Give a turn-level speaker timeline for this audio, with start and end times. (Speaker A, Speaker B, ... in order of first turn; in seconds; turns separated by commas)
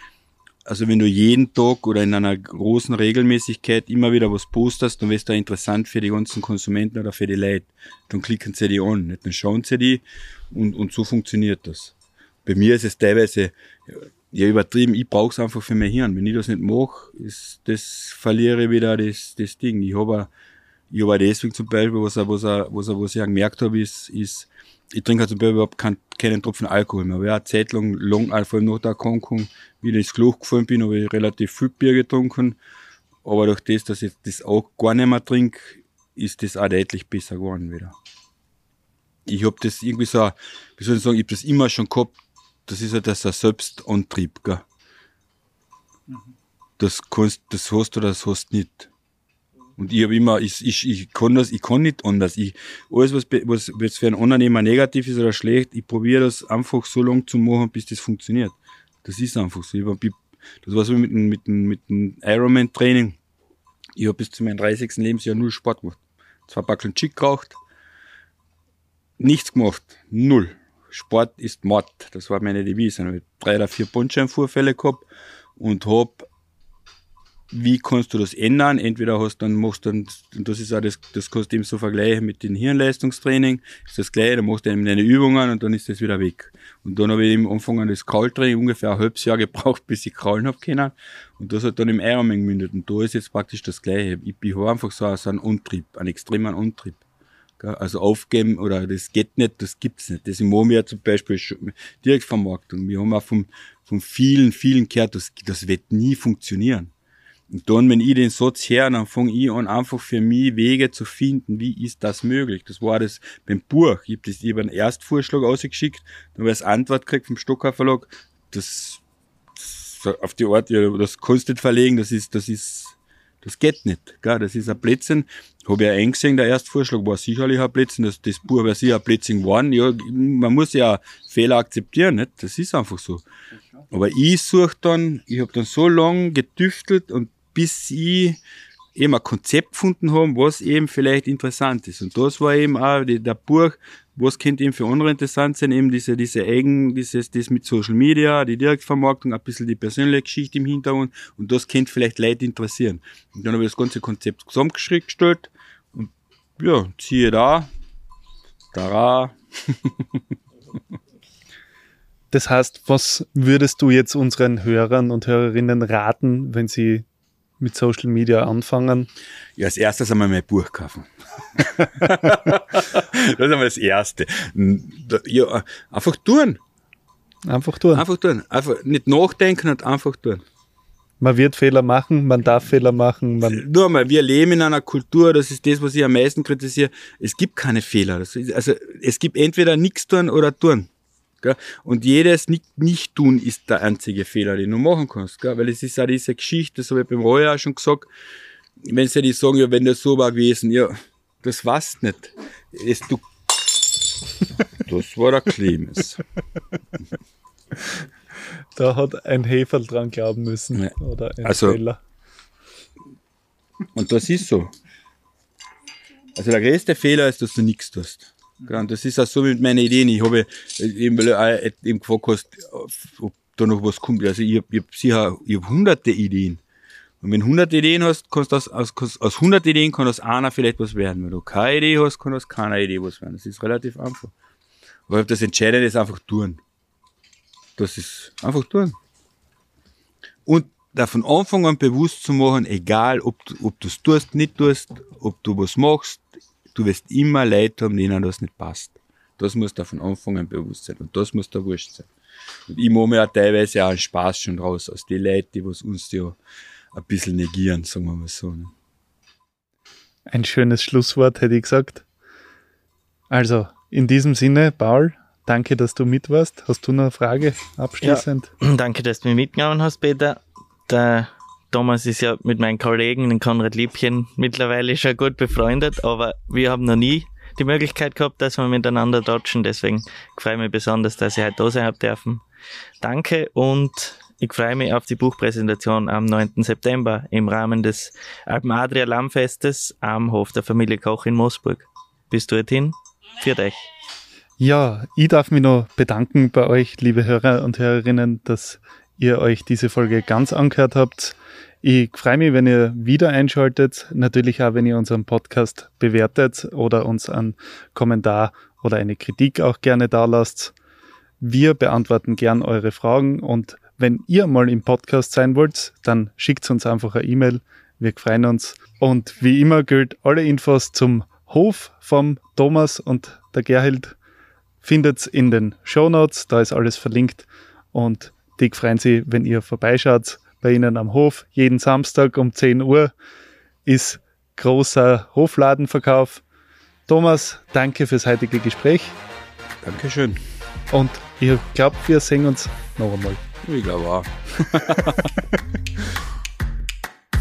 Speaker A: 0.7-20.3, Speaker A: 20.9-32.6, Speaker A: 33.2-38.0, Speaker A: 39.3-44.6, Speaker A: 46.8-48.9, Speaker A: 49.8-63.2, Speaker A: 64.0-67.6, Speaker A: 69.2-76.3, Speaker A: 77.5-97.0, Speaker A: 97.6-106.9, Speaker A: 107.5-119.0, Speaker A: 119.6-133.2, Speaker A: 133.9-138.4, Speaker A: 139.0-157.7, Speaker A: 158.7-160.1, Speaker B: 162.3-167.1, Speaker B: 167.6-169.1, Speaker A: 169.6-176.6, Speaker B: 177.5-178.1, Speaker A: 177.9-180.4, Speaker B: 181.2-183.6, Speaker A: 183.5-190.9, Speaker A: 191.4-198.1, Speaker A: 198.8-203.3, Speaker A: 204.8-206.2, Speaker B: 208.8-212.0, Speaker A: 210.7-211.8, Speaker A: 213.9-214.7, Speaker A: 216.4-226.6, Speaker A: 227.2-234.3, Speaker A: 235.1-236.6, Speaker A: 237.8-239.0, Speaker A: 240.5-252.1, Speaker A: 252.7-256.4, Speaker A: 256.9-258.7, Speaker B: 260.3-262.0, Speaker B: 263.3-268.5, Speaker C: 268.0-282.4, Speaker C: 283.0-293.9, Speaker B: 294.6-310.7, Speaker B: 311.4-324.2, Speaker B: 324.8-333.1, Speaker B: 333.9-336.4, Speaker B: 337.1-339.2, Speaker A: 339.8-340.4, Speaker B: 340.9-343.4, Speaker A: 343.6-345.3